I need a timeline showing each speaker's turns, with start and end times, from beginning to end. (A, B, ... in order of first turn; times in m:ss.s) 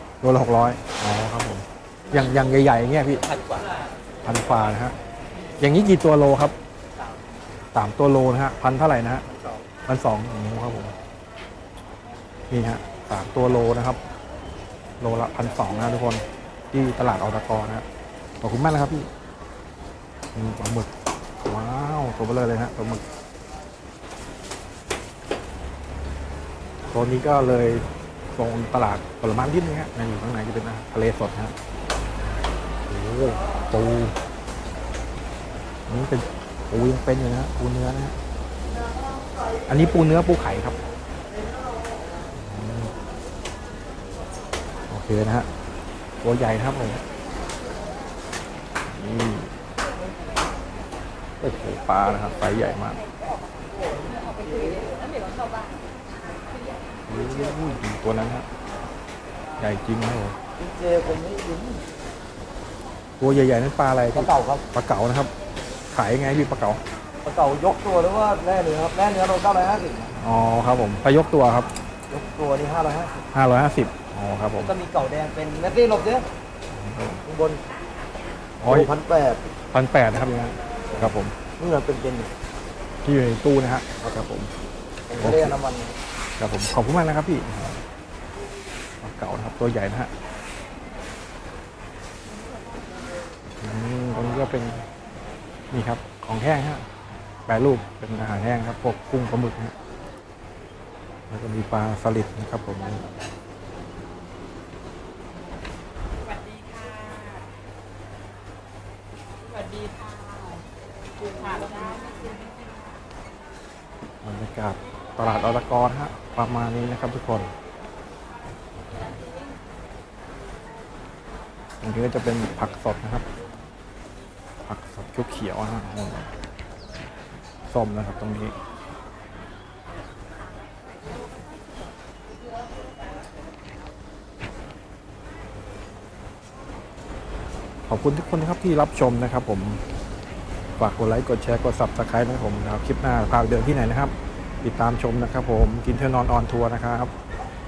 0:00.2-0:03.2 A
0:04.2-0:05.0 A
0:05.6-0:06.5 A
0:07.7-0:09.2 A
0:09.8-0:10.9 A
0:12.5-0:14.0 A
0:15.0-0:17.8 A
0:18.4-0:19.1 A
0:20.3-0:23.0 A
0:26.9-0:31.5 A
0:32.9-0:34.1 A
0:35.9-0:38.2 A
0:39.7-0:40.8 A
0:42.4-0:42.9 A
0:44.9-0:45.5 A
0:46.2-0:47.0 A
0:48.8-0:49.5 A
0:51.4-0:53.0 A
0:57.1-0:58.4 A
0:59.6-1:00.4 A
1:00.6-1:01.8 B
1:03.2-1:05.3 A
1:04.1-1:04.6 B
1:05.9-1:06.8 A
1:07.2-1:10.1 B
1:10.2-1:11.7 A
1:12.1-1:13.1 B
1:13.3-1:14.7 A
1:14.6-1:16.2 B
1:16.7-1:17.2 A
1:17.2-1:17.6 B
1:18.6-1:18.9 A
1:18.6-1:19.5 B
1:19.7-1:21.4 A
1:21.6-1:22.3 B
1:23.0-1:24.5 A
1:25.1-1:26.0 B
1:25.2-1:25.6 A
1:26.4-1:27.8 A
1:29.0-1:30.1 A
1:33.6-1:34.8 A
1:35.7-1:36.8 A
1:37.5-1:39.7 A
1:41.3-1:43.1 A
1:46.5-1:47.4 C
1:49.7-1:50.5 C
1:51.4-1:52.6 C
1:54.2-1:57.5 A
2:01.8-2:03.2 A
2:04.7-2:06.3 A
2:07.7-2:08.5 A
2:17.9-2:19.8 A
2:20.8-2:27.1 A